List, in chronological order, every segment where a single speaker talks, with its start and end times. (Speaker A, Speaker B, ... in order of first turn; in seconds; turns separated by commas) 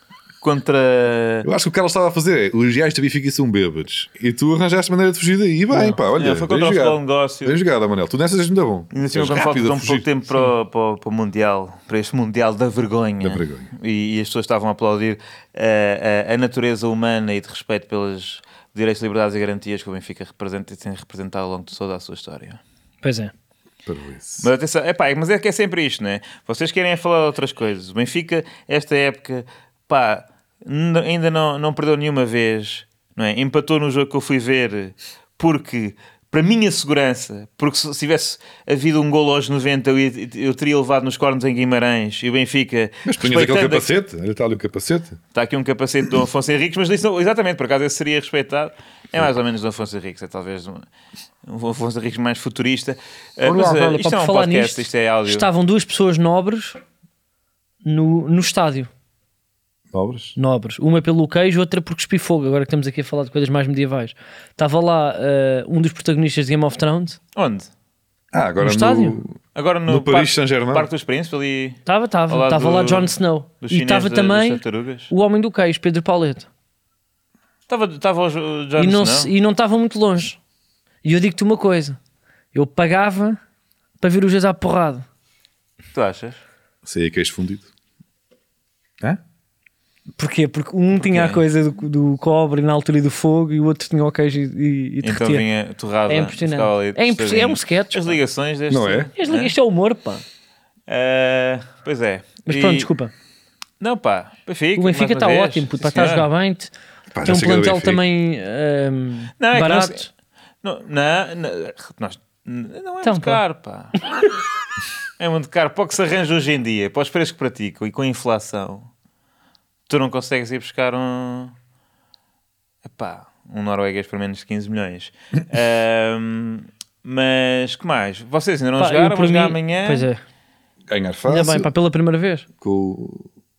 Speaker A: 0.4-1.5, Speaker B: 1.4-10.1, Speaker A: 5.7-7.6, Speaker A: 8.9-22.6, Speaker B: 13.2-13.7, Speaker C: 23.0-23.3, Speaker B: 23.9-24.5, Speaker A: 24.4-43.9, Speaker B: 43.0-45.2, Speaker A: 45.3-50.9, Speaker A: 51.5-55.5, Speaker C: 53.4-56.8, Speaker C: 57.8-58.9, Speaker B: 59.9-60.4, Speaker C: 60.4-67.2, Speaker A: 67.3-67.7, Speaker B: 68.3-70.9, Speaker C: 68.6-69.2, Speaker A: 69.5-75.1, Speaker C: 71.8-76.5, Speaker A: 77.7-79.3, Speaker C: 78.8-80.4, Speaker C: 81.0-82.0, Speaker C: 82.5-83.4, Speaker C: 84.0-85.0, Speaker A: 85.9-86.4, Speaker B: 86.8-87.7, Speaker C: 90.2-95.4, Speaker A: 90.9-91.4, Speaker A: 95.0-99.5, Speaker C: 96.1-98.2, Speaker B: 98.7-99.1, Speaker C: 99.2-100.2, Speaker A: 100.9-102.9, Speaker C: 102.5-103.1, Speaker A: 103.8-106.3, Speaker C: 104.8-106.7, Speaker B: 107.1-108.0, Speaker C: 107.2-110.1, Speaker A: 109.4-110.1, Speaker A: 110.6-114.0, Speaker C: 113.0-113.4, Speaker A: 115.2-118.9, Speaker A: 119.9-121.5, Speaker A: 122.8-130.1, Speaker C: 128.8-130.2, Speaker B: 130.9-131.7, Speaker C: 131.3-132.4, Speaker B: 132.6-133.3